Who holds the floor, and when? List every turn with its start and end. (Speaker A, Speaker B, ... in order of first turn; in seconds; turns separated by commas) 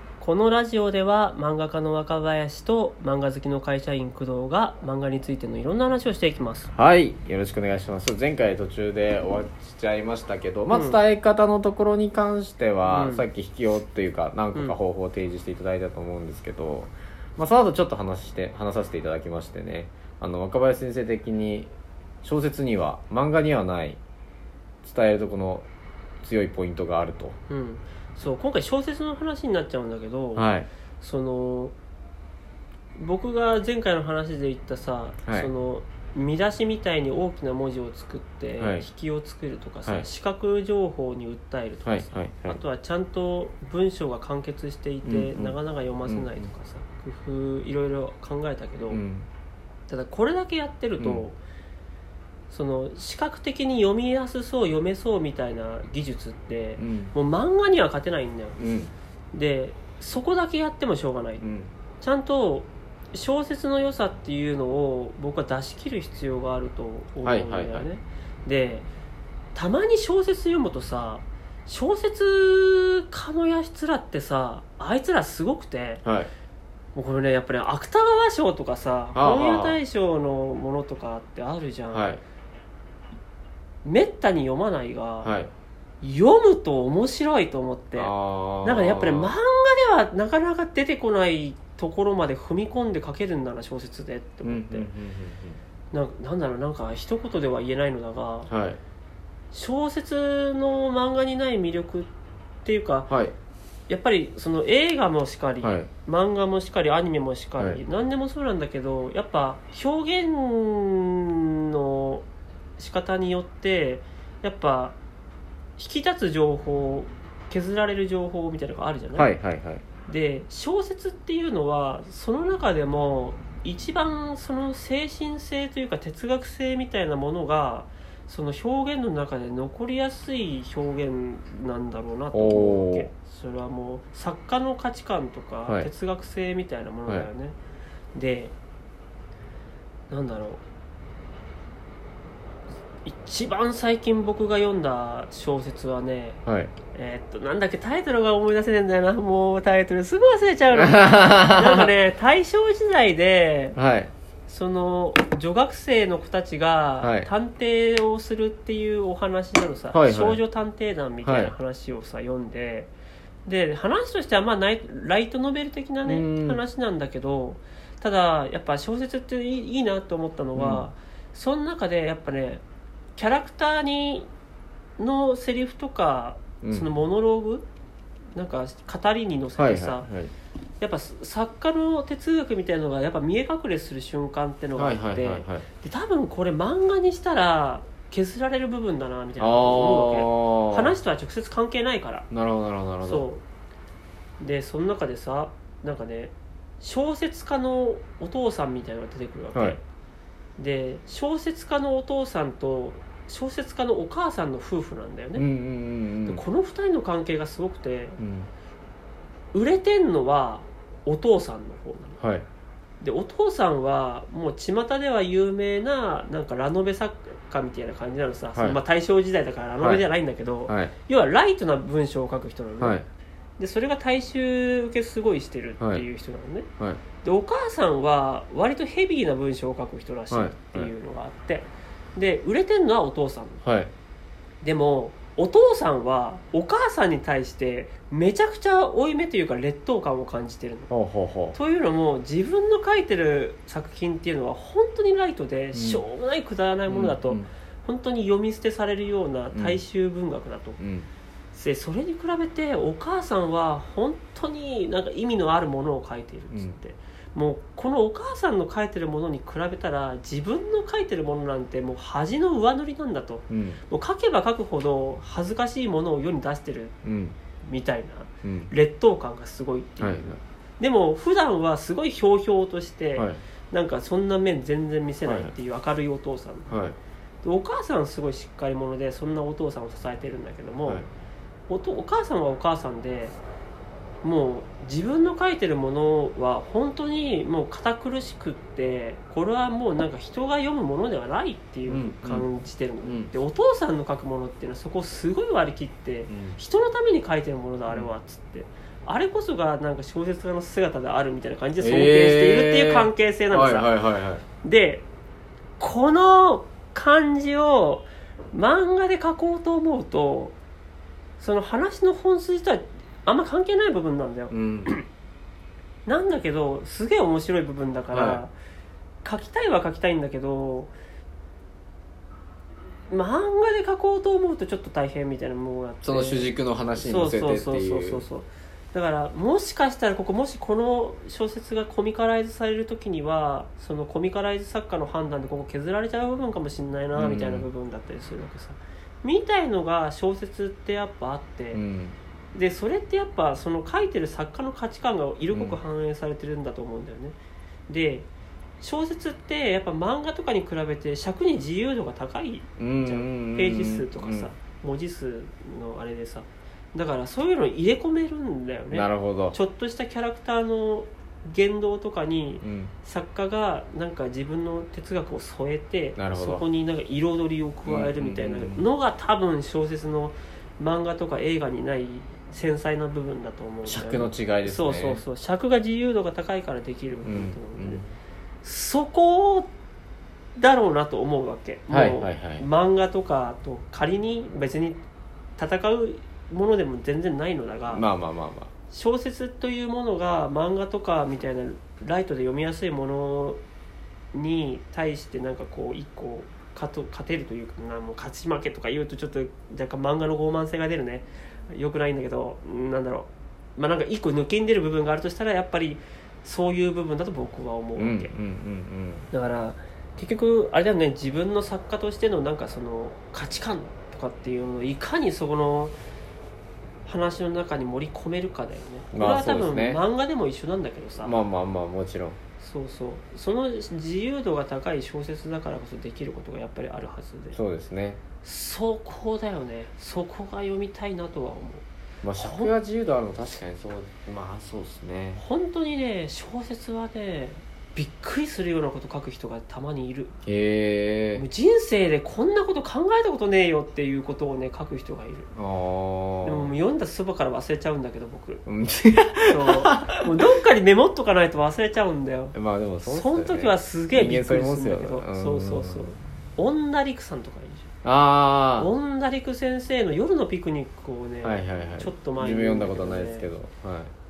Speaker A: 0.2-6.7, Speaker B: 6.7-21.7, Speaker A: 10.7-11.0, Speaker A: 12.8-13.2, Speaker B: 22.2-24.0, Speaker B: 24.8-25.7, Speaker B: 26.2-27.4, Speaker A: 27.5-30.5, Speaker B: 30.4-30.7, Speaker A: 31.0-31.7, Speaker A: 33.0-49.0, Speaker B: 35.2-35.5, Speaker B: 38.6-38.9, Speaker B: 41.9-42.6, Speaker B: 45.0-46.5, Speaker B: 48.9-49.3, Speaker A: 49.9-51.4, Speaker B: 51.0-51.2, Speaker A: 52.5-58.6, Speaker B: 56.8-57.1, Speaker B: 58.6-58.9, Speaker A: 59.3-61.4, Speaker B: 61.4-61.7, Speaker A: 62.0-68.9, Speaker B: 67.2-67.9, Speaker A: 69.5-76.0, Speaker B: 76.0-76.3, Speaker A: 76.9-82.1, Speaker B: 79.1-79.8, Speaker B: 81.9-82.2, Speaker A: 83.8-85.3, Speaker B: 85.2-85.5, Speaker A: 86.0-88.1, Speaker B: 88.0-89.3, Speaker A: 88.6-94.9, Speaker B: 94.4-95.6, Speaker A: 95.9-98.5, Speaker B: 98.5-98.8, Speaker A: 99.5-102.1, Speaker A: 102.6-103.1, Speaker B: 103.1-103.3, Speaker A: 103.9-112.2, Speaker B: 105.6-105.9, Speaker A: 112.8-115.0, Speaker A: 115.8-119.3, Speaker B: 119.1-119.8, Speaker A: 120.0-137.6, Speaker B: 132.3-133.1, Speaker A: 138.1-138.5, Speaker A: 140.1-140.6, Speaker A: 143.0-146.4, Speaker B: 146.4-146.7, Speaker A: 146.9-153.8, Speaker B: 150.7-151.9, Speaker B: 153.8-154.1, Speaker A: 154.5-162.9, Speaker B: 157.0-157.3, Speaker B: 159.9-160.4, Speaker B: 161.2-161.5, Speaker A: 163.4-172.6, Speaker B: 166.0-166.6, Speaker B: 170.5-170.8, Speaker A: 173.2-174.3, Speaker A: 175.0-177.7, Speaker B: 176.6-176.9, Speaker A: 178.3-180.1, Speaker B: 179.6-180.3, Speaker A: 180.8-192.3, Speaker B: 184.8-185.7, Speaker B: 189.4-190.9, Speaker B: 192.3-193.2, Speaker A: 193.0-193.4, Speaker A: 194.4-199.8, Speaker A: 200.6-205.4, Speaker B: 205.3-206.4, Speaker A: 206.3-208.2, Speaker B: 208.2-208.5, Speaker A: 209.5-212.2, Speaker B: 212.2-212.4, Speaker A: 213.0-223.0, Speaker B: 218.5-218.8, Speaker B: 219.8-220.0, Speaker B: 220.7-220.9, Speaker B: 222.8-223.1, Speaker A: 223.6-226.7, Speaker B: 225.8-226.1, Speaker A: 227.2-233.6, Speaker B: 230.3-230.9, Speaker B: 233.6-233.9, Speaker A: 234.6-240.9, Speaker B: 240.9-241.6, Speaker A: 241.5-250.8, Speaker B: 245.7-246.0, Speaker B: 246.9-247.5, Speaker B: 249.5-249.8, Speaker B: 250.8-251.1, Speaker A: 251.5-266.9, Speaker B: 256.5-256.8, Speaker B: 263.5-263.8, Speaker B: 267.0-267.4, Speaker A: 267.6-276.7, Speaker B: 268.4-268.7, Speaker B: 270.0-270.4, Speaker B: 275.2-275.5, Speaker B: 276.7-277.0, Speaker A: 277.4-281.0, Speaker A: 281.7-283.4, Speaker A: 284.2-303.9, Speaker B: 291.9-292.5, Speaker B: 293.0-293.3, Speaker B: 296.3-296.6, Speaker B: 301.8-304.4, Speaker A: 304.6-305.1, Speaker A: 305.8-310.6, Speaker A: 311.4-315.0, Speaker B: 314.5-314.9, Speaker A: 316.1-318.5, Speaker B: 318.1-318.4, Speaker A: 319.2-320.9, Speaker A: 323.1-341.8, Speaker B: 326.0-328.2, Speaker B: 337.1-337.7, Speaker B: 341.7-342.1, Speaker A: 342.5-347.4, Speaker B: 345.5-345.8, Speaker A: 347.9-348.3, Speaker A: 348.8-378.0, Speaker B: 352.8-354.5, Speaker B: 358.9-359.6, Speaker B: 362.6-362.9, Speaker B: 366.2-366.6, Speaker B: 367.8-368.9, Speaker B: 373.8-375.2, Speaker B: 377.2-378.1, Speaker A: 378.6-379.7, Speaker A: 380.6-385.0, Speaker B: 381.9-382.6, Speaker A: 385.6-388.0, Speaker B: 387.9-388.7, Speaker A: 388.9-393.6, Speaker A: 394.3-408.3, Speaker B: 407.9-409.3, Speaker A: 409.3-415.9, Speaker A: 417.0-421.3, Speaker B: 419.1-420.0, Speaker B: 421.2-422.4, Speaker A: 422.6-427.6, Speaker B: 427.5-428.2, Speaker A: 428.4-431.8, Speaker B: 432.2-435.4, Speaker A: 432.4-432.7, Speaker A: 435.4-440.3, Speaker B: 440.4-441.4, Speaker A: 441.4-445.5, Speaker B: 445.5-446.7, Speaker A: 446.4-448.6, Speaker B: 448.6-450.2, Speaker A: 449.5-457.9, Speaker B: 452.5-456.1, Speaker B: 458.0-458.9, Speaker A: 458.8-463.5, Speaker B: 461.4-464.1